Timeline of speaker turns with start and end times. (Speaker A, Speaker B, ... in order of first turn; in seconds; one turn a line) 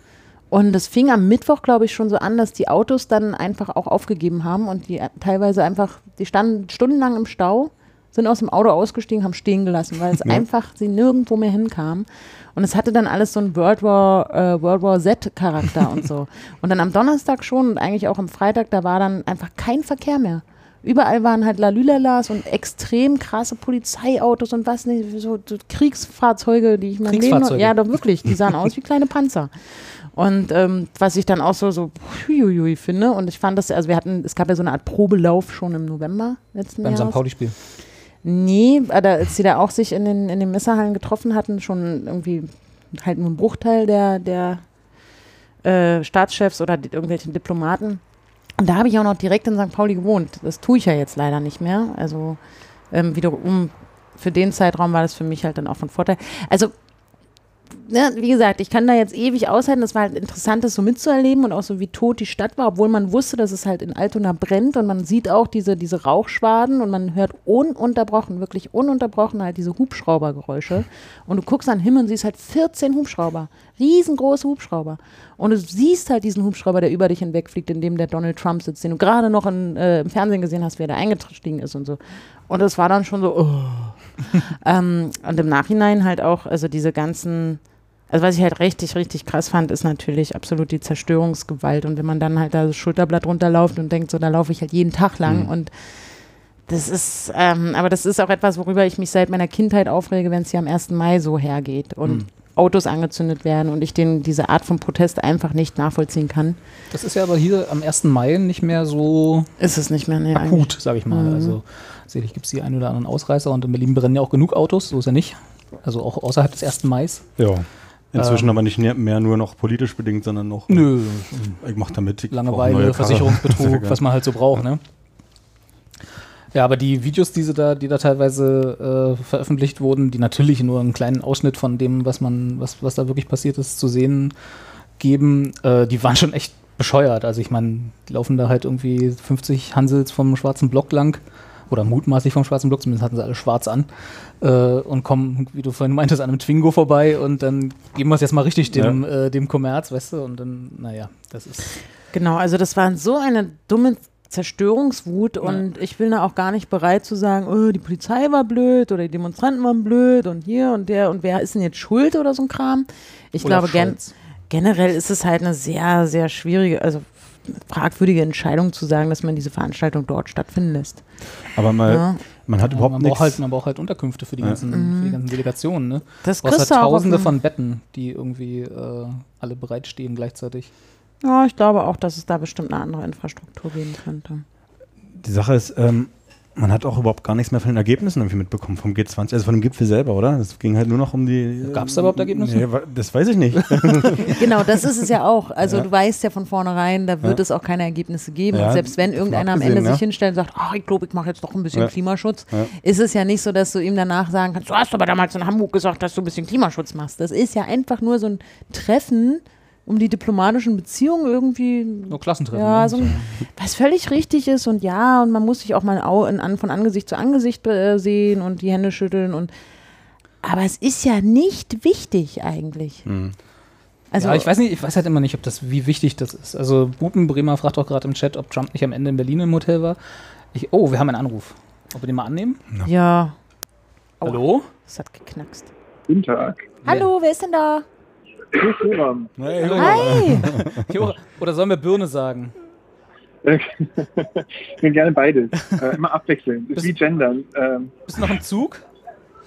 Speaker A: 0.5-37.2
Speaker B: 27.1-27.8
Speaker B: 36.8-37.5
Speaker A: 38.2-44.6
Speaker A: 45.6-48.0
Speaker A: 48.6-52.4
Speaker A: 52.9-56.7
Speaker A: 57.7-95.9
Speaker C: 95.2-95.5
Speaker A: 96.7-106.6
Speaker B: 106.9-109.5
Speaker A: 109.6-111.6
Speaker B: 110.3-117.3
Speaker C: 117.4-120.9
Speaker B: 118.2-118.5
Speaker B: 120.7-121.6
Speaker C: 121.6-124.0
Speaker B: 122.3-124.8
Speaker B: 126.5-134.3
Speaker B: 135.0-143.9
Speaker B: 144.4-151.7
Speaker C: 148.7-149.0
Speaker A: 152.1-164.0
Speaker B: 163.4-164.1
Speaker A: 164.5-171.0
Speaker C: 171.5-173.4
Speaker A: 171.9-172.2
Speaker B: 172.6-180.7
Speaker A: 174.7-175.2
Speaker A: 176.2-177.3
Speaker A: 181.2-184.4
Speaker C: 185.1-194.4
Speaker B: 191.7-192.7
Speaker B: 193.6-194.3
Speaker A: 194.3-219.5
Speaker C: 198.5-200.0
Speaker B: 212.1-213.3
Speaker A: 220.4-223.1
Speaker C: 223.1-223.3
Speaker A: 224.1-224.5
Speaker B: 224.2-230.0
Speaker B: 230.5-232.6
Speaker A: 232.8-233.3
Speaker A: 234.2-235.7
Speaker B: 234.2-234.7
Speaker D: 236.1-236.7
Speaker B: 236.8-237.1
Speaker A: 236.8-237.8
Speaker D: 238.5-239.3
Speaker C: 239.4-241.1
Speaker B: 239.6-242.5
Speaker A: 239.8-240.5
Speaker D: 243.4-248.0
Speaker B: 245.6-245.9
Speaker B: 248.1-248.8